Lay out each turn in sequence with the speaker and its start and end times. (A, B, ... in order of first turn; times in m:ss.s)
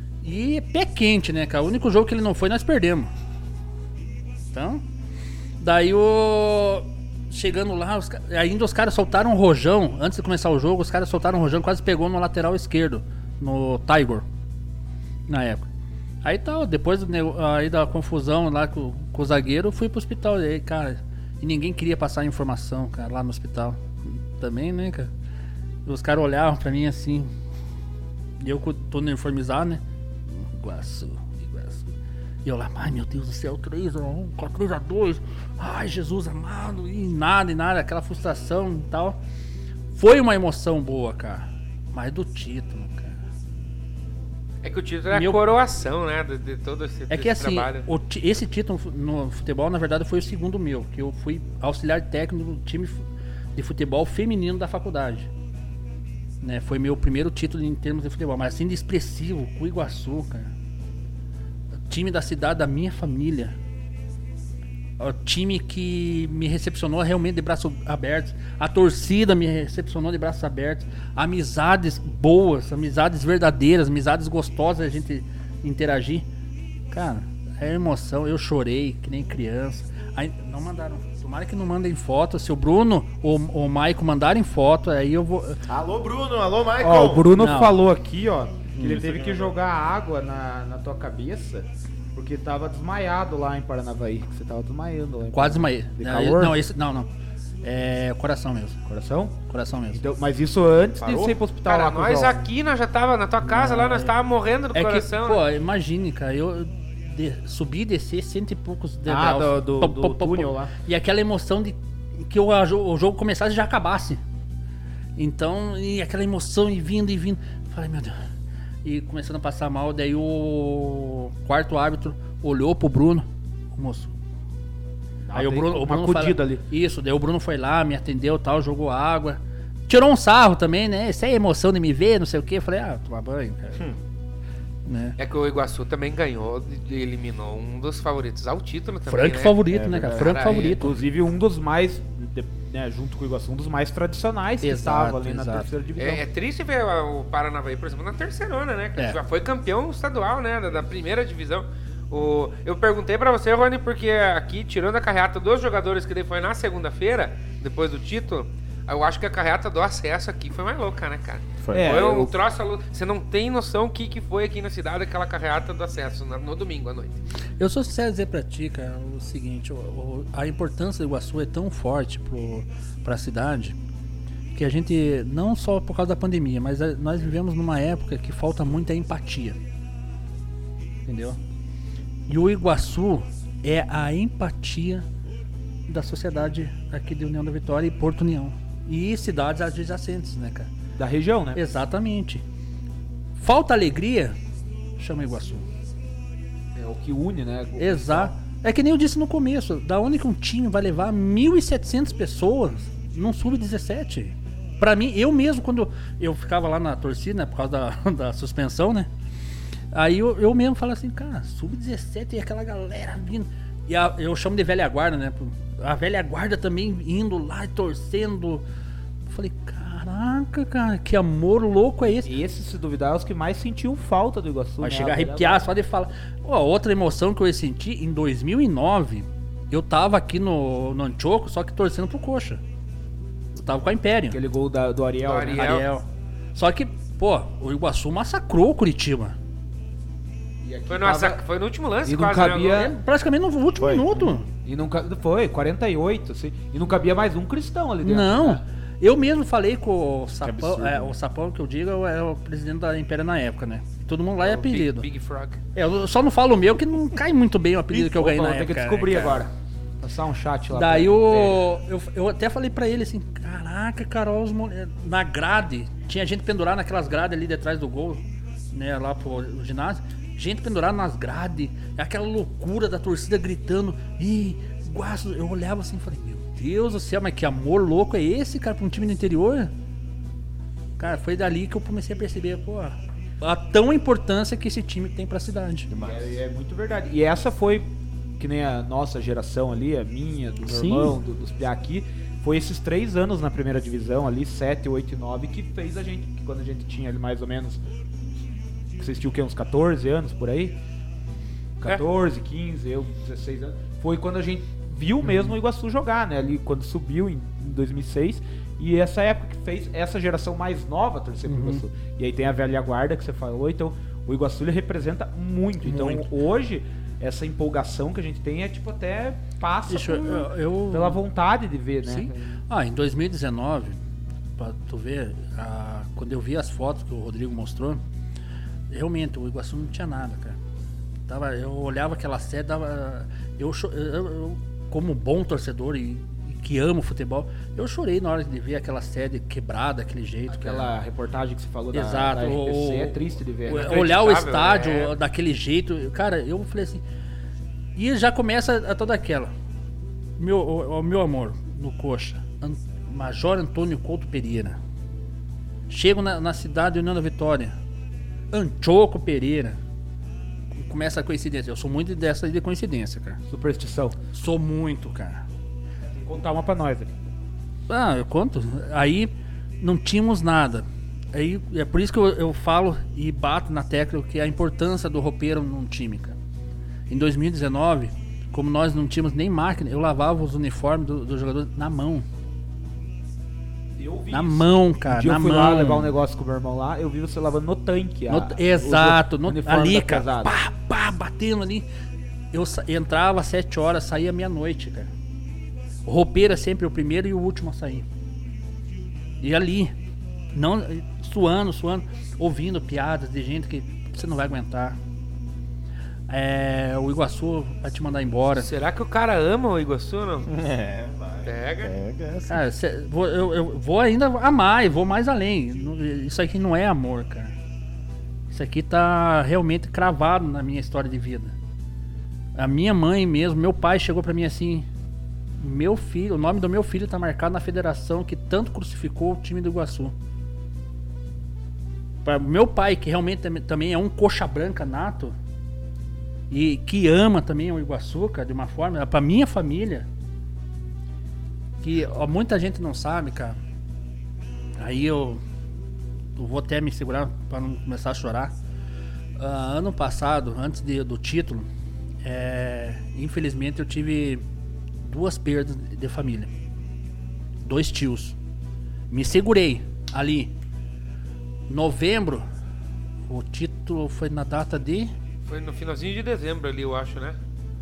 0:00.2-0:03.1 A
0:04.5-0:04.8 A
0:05.6-0:14.2 A
0:15.3-0:15.7 A
0:16.2-0:25.1 A
0:25.9-0:27.3 A
0:28.4-0:29.8 A
0:30.3-0:31.9 A
0:32.4-0:39.2 A
0:39.9-0:43.2 A
0:44.6-0:47.8 B
0:45.1-0:45.4 A
0:47.1-0:53.0 A
0:53.6-0:55.3 A
0:56.4-1:00.5 A
1:01.9-1:03.6 A
1:05.0-1:16.3 A
1:16.9-1:25.6 A
1:25.7-1:27.4 C
1:26.8-1:36.6 D
1:27.4-1:27.8 A
1:28.8-1:29.2 A
1:29.0-1:29.5 C
1:35.3-1:37.1 A
1:37.6-1:38.8 A
1:38.9-1:39.4 D
1:39.5-1:40.0 A
1:39.9-1:42.5 D
1:41.0-1:41.4 C
1:41.6-1:45.4 B
1:43.4-1:44.1 A
1:44.7-1:54.2 A
1:49.1-1:50.7 D
1:55.2-1:58.2 A
1:58.8-2:04.1 A
2:05.3-2:06.6 D
2:05.4-2:13.9 A
2:14.8-2:15.2 A
2:15.2-2:20.8 B
2:19.1-2:21.0 A
2:19.7-2:26.2 D
2:24.6-2:25.7 A
2:26.0-2:47.2 B
2:41.6-2:42.0 C
2:41.7-2:42.3 D
2:47.6-2:53.8 A
2:54.5-2:59.6 A
3:01.1-3:01.4 A
3:02.3-3:05.0 A
3:05.9-3:10.7 A
3:11.0-3:11.6 D
3:11.6-3:12.4 A
3:13.4-3:14.4 A
3:15.0-3:15.7 A
3:16.8-3:18.3 D
3:17.8-3:29.1 A
3:29.9-3:38.6 A
3:39.3-3:42.3 A
3:42.1-3:45.7 D
3:44.8-3:52.6 A
3:53.6-3:54.4 A
3:54.3-3:55.8 D
3:55.3-3:55.9 B
3:55.6-3:59.4 A
4:00.6-4:01.4 D
4:00.9-4:02.9 B
4:02.0-4:02.9 D
4:02.7-4:04.5 A
4:03.8-4:04.4 C
4:04.6-4:08.6 D
4:08.0-4:15.1 A
4:10.4-4:11.2 C
4:14.4-4:15.6 B
4:15.8-4:19.4 A
4:17.9-4:21.6 D
4:20.7-4:28.2 A
4:28.7-4:39.7 A
4:41.0-4:45.9 A
4:45.9-4:46.4 C
4:46.0-4:57.8 D
4:50.7-4:51.2 A
4:59.0-5:00.8 D
5:01.8-5:22.3 D
5:05.2-5:05.5 A
5:11.5-5:11.8 A
5:15.8-5:16.3 A
5:19.9-5:21.2 A
5:22.0-5:24.0 A
5:24.6-5:28.0 A
5:28.9-5:30.6 A
5:31.3-5:40.9 A
5:40.5-5:44.2 D
5:41.9-5:47.0 A
5:43.7-5:45.2 B
5:48.0-5:49.5 A
5:50.4-5:54.8 A
5:55.9-5:57.8 A
5:58.5-5:59.8 A
6:00.8-6:03.4 A
6:03.5-6:04.2 D
6:04.3-6:05.4 A
6:06.2-6:07.3 D
6:07.9-6:16.4 A
6:17.1-6:22.3 A
6:24.0-6:30.6 D
6:24.3-6:26.1 A
6:28.3-6:31.9 A
6:32.5-6:35.1 A
6:36.0-6:38.1 A
6:39.4-6:39.9 A
6:40.5-6:45.0 A
6:46.3-6:48.7 A
6:48.6-6:50.5 B
6:50.5-6:52.6 C
6:51.4-6:51.9 B
6:52.5-6:57.5 A
6:58.5-7:01.5 A
7:02.6-7:04.9 A
7:05.6-7:10.1 A
7:12.2-7:15.4 A
7:16.5-7:20.1 A
7:21.8-7:23.6 A
7:24.8-7:25.4 A
7:26.4-7:28.5 A
7:29.4-7:31.7 A
7:32.2-7:34.4 A
7:35.0-7:36.5 A
7:37.6-7:38.4 A
7:39.1-7:40.5 A
7:41.7-7:42.4 A
7:43.3-7:45.1 A
7:45.5-7:47.4 B